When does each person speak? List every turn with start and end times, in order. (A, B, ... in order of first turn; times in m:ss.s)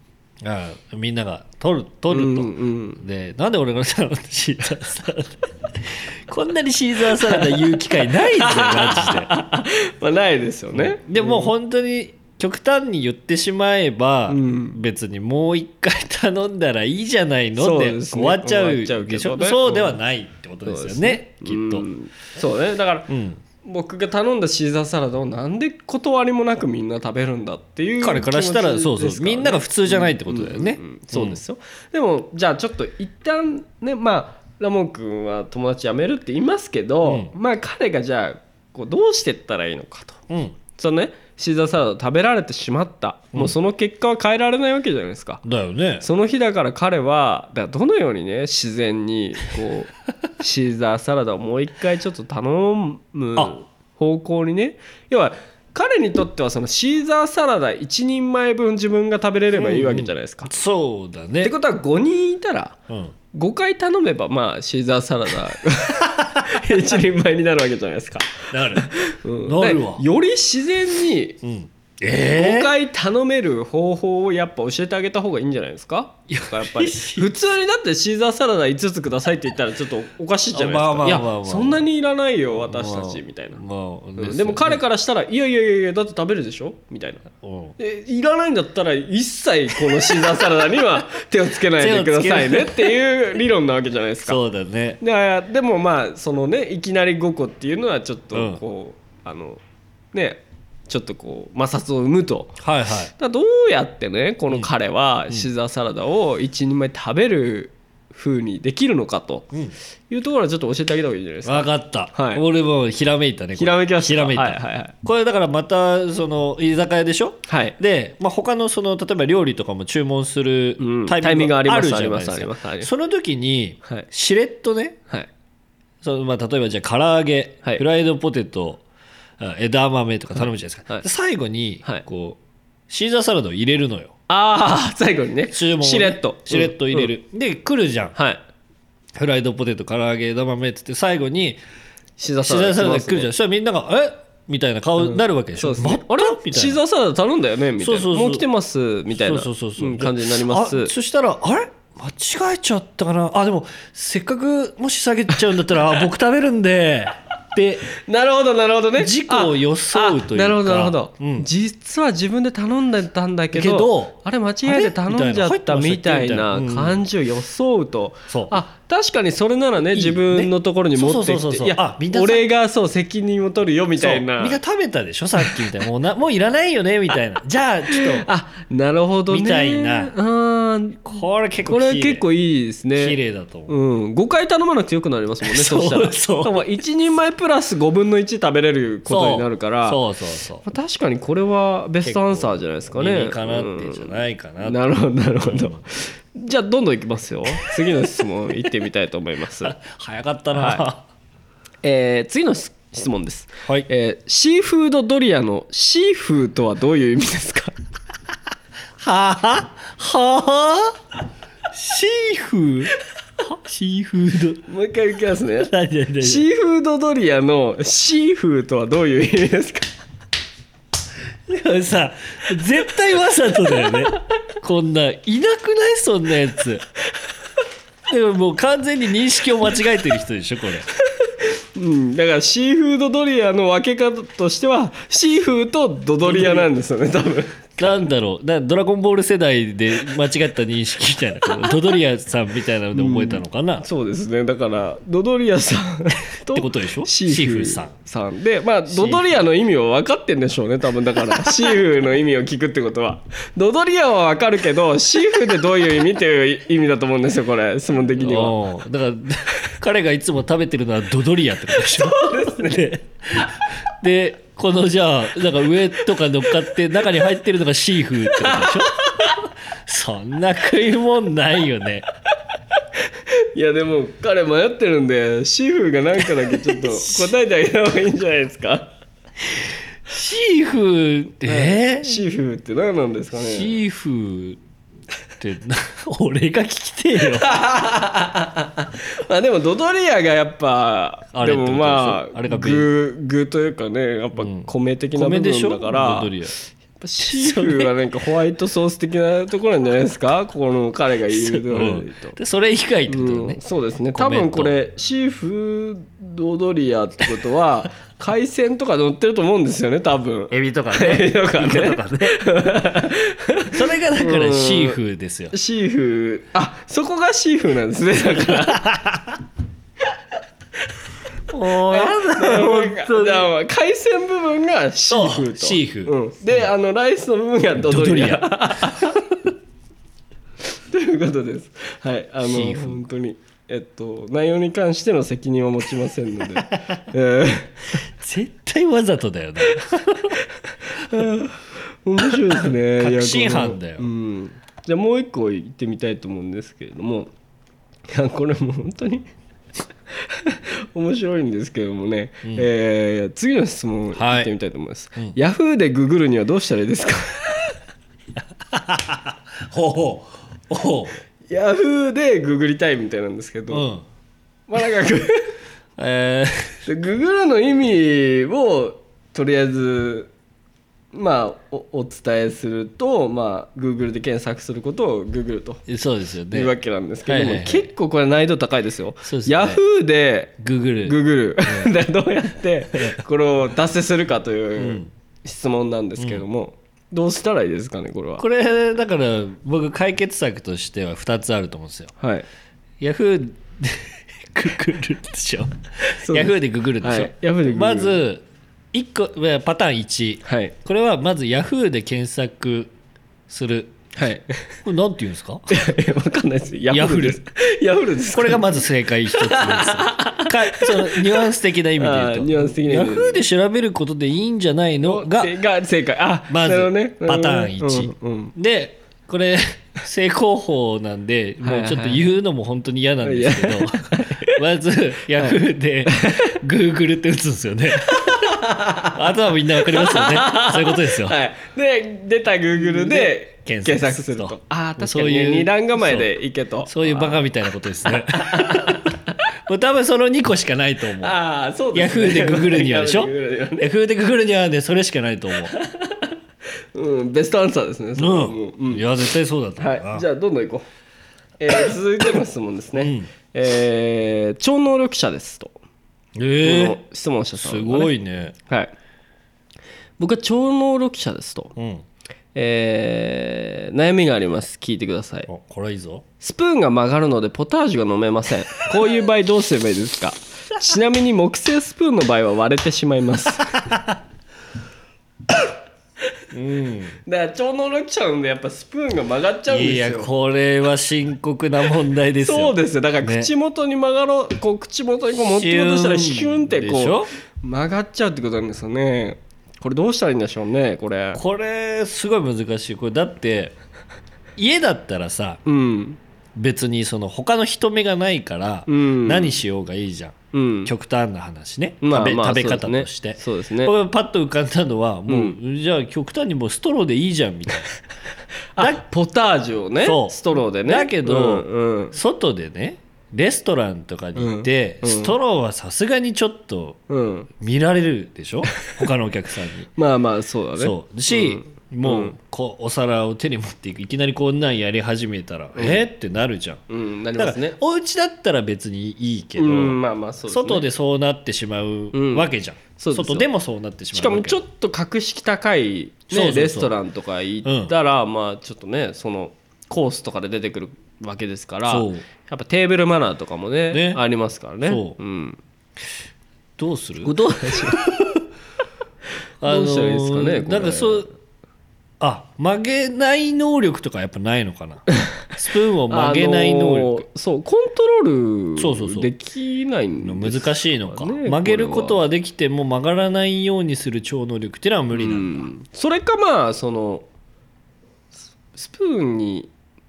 0:00.4-0:09.3 A
0:02.1-0:03.0 B
0:07.2-0:11.5 B
0:10.7-0:21.9 A
0:14.3-0:14.8 B
0:17.6-0:20.0 B
0:20.6-0:23.1 B
0:23.1-0:23.4 A
0:23.6-0:45.4 B
0:28.0-0:31.4 A
0:37.0-0:37.3 A
0:40.3-0:40.6 A
0:45.4-0:46.0 A
0:46.0-1:00.5 B
0:59.6-1:01.5 A
1:01.4-1:02.8 B
1:02.9-1:03.1 A
1:03.3-1:11.4 B
1:08.5-1:10.0 A
1:11.4-1:12.7 A
1:12.2-1:23.6 B
1:16.3-1:17.3 A
1:20.5-1:21.8 A
1:22.6-1:24.8 A
1:24.2-1:27.2 B
1:27.4-1:27.8 A
1:27.8-1:34.4 B
1:31.8-1:32.9 A
1:34.3-1:35.0 A
1:35.0-1:39.6 B
1:38.3-1:38.6 A
1:40.1-1:42.6 B
1:42.6-1:43.1 A
1:43.1-1:49.5 B
1:50.1-1:52.4 B
1:51.4-2:05.0 A
1:53.6-1:54.9 B
1:57.5-1:57.8 B
2:00.8-2:02.9 B
2:06.0-2:08.8 A
2:09.4-2:14.1 A
2:14.3-2:17.1 B
2:15.5-2:18.2 A
2:18.2-2:18.4 B
2:19.2-2:21.6 A
2:22.2-2:23.3 B
2:22.4-2:26.8 A
2:25.0-2:30.9 B
2:27.8-2:28.4 A
2:29.1-2:37.9 A
2:38.0-2:54.6 B
2:39.0-2:41.5 A
2:43.5-2:47.0 A
2:48.3-2:48.6 A
2:49.9-2:52.4 A
2:54.0-2:58.3 A
2:57.9-3:10.0 B
2:59.3-3:00.1 A
3:01.0-3:02.2 A
3:03.0-3:03.7 A
3:05.4-3:06.6 A
3:09.1-3:10.6 A
3:10.6-3:19.8 B
3:12.0-3:14.8 A
3:15.4-3:15.8 A
3:19.6-3:21.0 A
3:20.5-3:20.9 B
3:21.8-3:27.8 B
3:29.0-3:31.0 A
3:31.7-3:34.6 A
3:34.7-3:39.9 B
3:35.6-3:36.4 A
3:41.5-3:46.8 A
3:48.1-3:50.9 A
3:51.2-3:58.0 B
3:56.2-3:56.7 A
3:57.8-4:03.9 A
4:02.9-4:18.6 B
4:06.5-4:07.9 A
4:08.9-4:09.2 A
4:18.2-4:32.0 A
4:22.1-4:22.9 B
4:28.4-4:29.3 B
4:33.5-4:38.9 B
4:36.5-4:37.3 A
4:40.1-4:42.2 A
4:41.5-4:43.8 B
4:43.3-4:44.6 A
4:45.4-4:47.5 A
4:47.4-5:02.4 B
4:51.3-4:52.9 A
4:54.4-4:56.5 A
4:57.2-4:57.9 A
5:01.3-5:03.6 A
5:03.1-5:15.0 B
5:04.1-5:04.8 A
5:10.5-5:12.4 A
5:13.7-5:15.5 A
5:15.5-5:18.9 B
5:18.4-5:19.4 A
5:21.5-5:23.5 A
5:21.9-5:29.3 B
5:25.1-5:26.1 A
5:27.8-5:29.0 A
5:30.7-5:38.0 B
5:32.4-5:33.0 A
5:38.0-5:40.4 A
5:40.9-5:47.3 B
5:42.3-5:44.1 A
5:48.1-5:49.3 B
5:50.1-5:57.7 B
5:54.2-5:54.5 A
5:58.7-6:01.2 A
6:01.5-6:03.9 B
6:03.7-6:04.0 A
6:04.7-6:05.5 B
6:06.0-6:06.8 A
6:06.9-6:10.3 B
6:11.1-6:15.8 B
6:15.9-6:16.8 A
6:16.5-6:28.5 B
6:17.3-6:17.9 A
6:19.2-6:19.8 A
6:20.6-6:21.9 A
6:24.8-6:25.1 A
6:26.2-6:26.4 A
6:28.4-6:32.1 A
6:32.2-6:32.5 B
6:33.0-6:42.9 A
6:36.0-6:38.2 B
6:40.4-6:40.7 B
6:43.5-6:43.9 A
6:44.2-6:44.6 B
6:44.8-6:45.7 A
6:45.7-6:48.8 B
6:46.9-6:47.4 A
6:48.3-6:55.6 A
6:49.3-6:53.4 B
6:55.0-6:58.5 B
6:56.5-7:08.6 A
7:01.6-7:02.2 B
7:03.2-7:04.6 B
7:05.4-7:06.6 B
7:08.2-7:09.2 B
7:09.1-7:11.4 A
7:09.8-7:17.4 B
7:12.9-7:16.3 A
7:16.8-7:21.4 A
7:18.2-7:19.1 B
7:21.2-7:23.9 B
7:21.9-7:25.7 A
7:25.7-7:26.3 B
7:26.9-7:29.0 B
7:28.2-7:30.2 A
7:29.8-7:30.8 B
7:31.6-7:35.8 B
7:33.0-7:33.3 A
7:36.4-7:37.0 A
7:36.6-7:38.1 B
7:37.6-7:38.6 A
7:38.7-7:38.9 B
7:40.2-7:41.7 B
7:41.8-7:42.0 A
7:42.5-7:45.5 B
7:45.5-7:46.2 A
7:46.4-7:53.8 B
7:56.5-7:57.2 A
7:57.2-8:00.3 B
7:59.7-8:03.5 A
8:02.4-8:11.4 B
8:05.3-8:07.3 A
8:11.3-8:13.8 A
8:14.6-8:15.6 A
8:15.6-8:16.2 B
8:16.6-8:27.9 A
8:18.9-8:19.6 B
8:20.5-8:20.9 B
8:22.0-8:23.9 B
8:25.3-8:25.6 B
8:28.8-8:32.2 B
8:30.0-8:37.0 A
8:34.4-8:35.4 B
8:37.1-8:37.5 B
8:37.6-8:39.9 A
8:40.0-8:42.4 B
8:40.8-8:46.8 A
8:45.8-8:46.0 B
8:46.9-8:47.8 B
8:47.4-8:54.6 A
8:49.6-8:50.9 B
8:52.1-8:53.5 B
8:54.1-9:05.6 B
8:56.3-8:56.9 A
8:57.6-8:57.9 A
9:01.9-9:02.3 A
9:03.9-9:04.2 A
9:04.8-9:05.2 A
9:06.8-9:08.4 A
9:07.2-9:08.0 B
9:09.6-9:11.3 A
9:09.6-9:11.3 B
9:12.2-9:17.3 A
9:16.1-9:22.2 B
9:18.8-9:19.3 A
9:20.2-9:25.7 A
9:25.1-9:27.2 B
9:28.7-9:29.7 B